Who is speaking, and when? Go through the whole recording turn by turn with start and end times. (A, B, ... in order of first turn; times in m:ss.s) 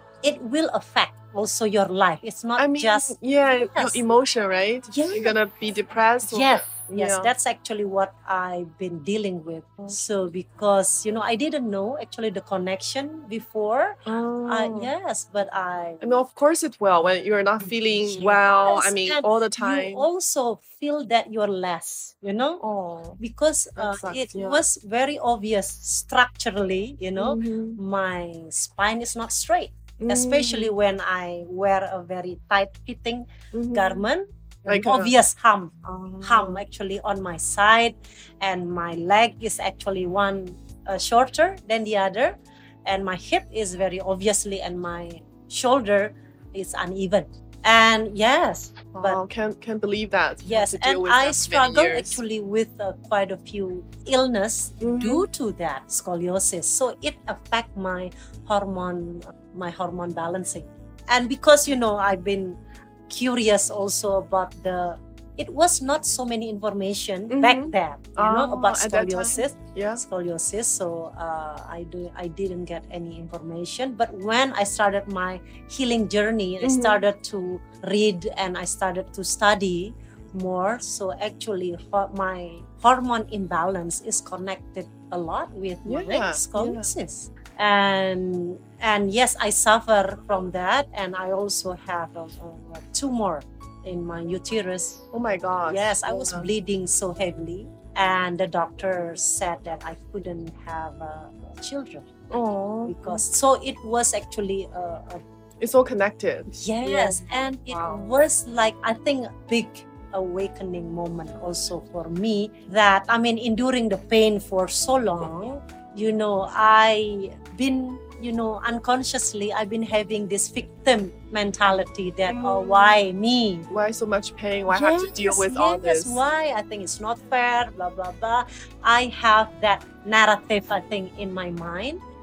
0:00.2-0:04.0 A
0:02.6-0:07.3 B
0:04.9-0:05.4 A
0:06.3-0:16.2 A
0:14.1-0:14.9 B
0:16.0-0:20.1 B
0:18.1-0:22.6 A
0:22.6-0:23.2 B
0:23.2-0:49.2 A
0:23.8-0:24.6 B
0:27.2-0:27.8 B
0:30.0-0:30.7 B
0:33.5-0:34.0 B
0:34.7-0:35.1 B
0:35.8-0:36.6 B
0:48.9-0:52.2 B
0:50.4-1:35.0 A
0:54.8-0:55.3 B
1:07.3-1:10.0 B
1:16.6-1:17.0 B
1:25.8-1:26.9 B
1:35.1-1:36.5 B
1:35.6-1:42.1 A
1:42.3-1:43.2 B
1:42.9-1:45.2 A
1:45.6-1:48.0 B
1:46.5-2:03.7 A
2:02.3-2:03.0 B
2:03.7-2:06.2 B
2:04.7-2:12.0 A